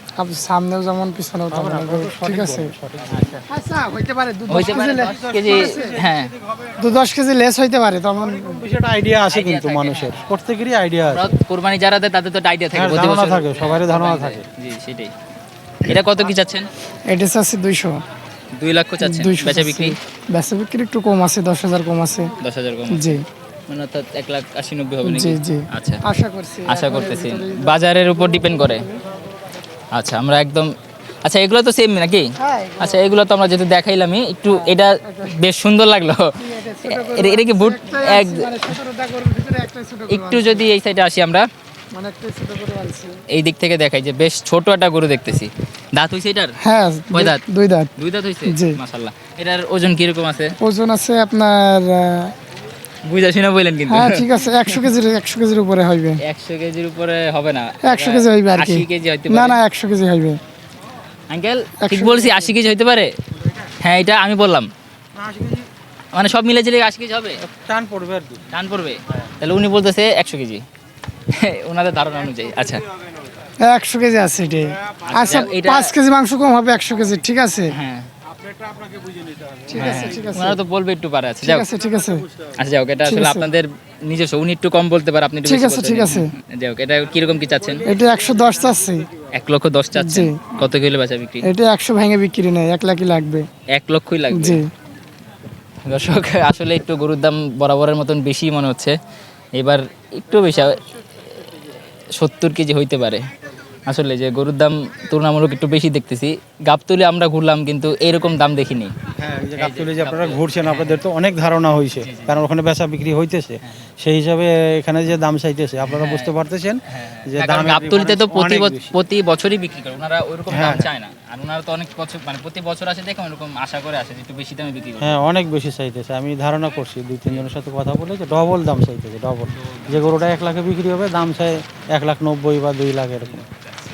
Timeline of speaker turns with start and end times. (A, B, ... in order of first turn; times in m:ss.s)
0:00.2-0:02.7 A
0:01.5-0:03.4 B
0:03.1-0:03.4 C
0:03.5-0:05.9 A
0:04.5-0:06.3 C
0:04.5-0:06.8 B
0:06.8-0:08.6 A
0:08.2-0:11.3 B
0:09.3-0:10.2 C
0:11.0-0:15.1 C
0:12.7-0:14.4 B
0:15.8-0:16.7 C
0:17.1-0:18.0 A
0:18.6-0:20.0 C
0:19.0-0:22.3 A
0:22.4-0:26.0 C
0:22.9-0:23.2 A
0:25.0-0:29.0 A
0:26.7-0:28.8 C
0:29.9-0:30.7 C
0:31.2-0:32.3 C
0:32.4-0:33.1 A
0:32.8-0:36.2 C
0:34.5-0:35.4 A
0:36.4-0:40.6 A
0:36.8-0:38.8 C
0:40.1-0:41.4 C
0:41.9-0:43.2 A
0:43.3-0:46.5 C
0:46.6-0:47.9 A
0:47.1-0:47.4 C
0:48.0-0:50.5 C
0:48.5-0:48.8 A
0:50.6-0:52.3 A
0:53.0-0:54.9 C
0:53.9-0:56.2 A
0:56.2-0:59.6 C
0:57.8-1:00.4 A
1:01.3-1:03.1 C
1:01.8-1:02.5 A
1:03.8-1:04.7 C
1:05.2-1:05.6 B
1:06.1-1:07.4 C
1:07.4-1:08.4 B
1:08.5-1:10.6 C
1:11.3-1:12.8 C
1:13.6-1:17.7 A
1:15.0-1:15.9 C
1:17.7-1:18.1 C
1:18.9-1:19.7 B
1:19.7-1:20.6 A
1:19.8-1:21.7 C
1:21.4-1:22.3 A
1:22.6-1:27.8 C
1:23.0-1:23.5 A
1:25.4-1:26.3 A
1:27.8-1:29.1 A
1:29.3-1:31.5 C
1:30.0-1:30.4 A
1:31.4-1:33.4 A
1:33.7-1:34.6 C
1:34.3-1:34.6 A
1:35.9-1:39.0 C
1:39.6-1:40.8 C
1:42.2-1:43.2 C
1:43.9-1:48.9 C
1:49.2-1:58.9 B
1:49.6-1:51.0 C
1:52.0-1:52.4 C
1:55.8-1:56.4 C
1:56.9-2:05.2 C
2:00.5-2:00.8 B
2:05.0-2:13.4 B
2:09.5-2:10.3 C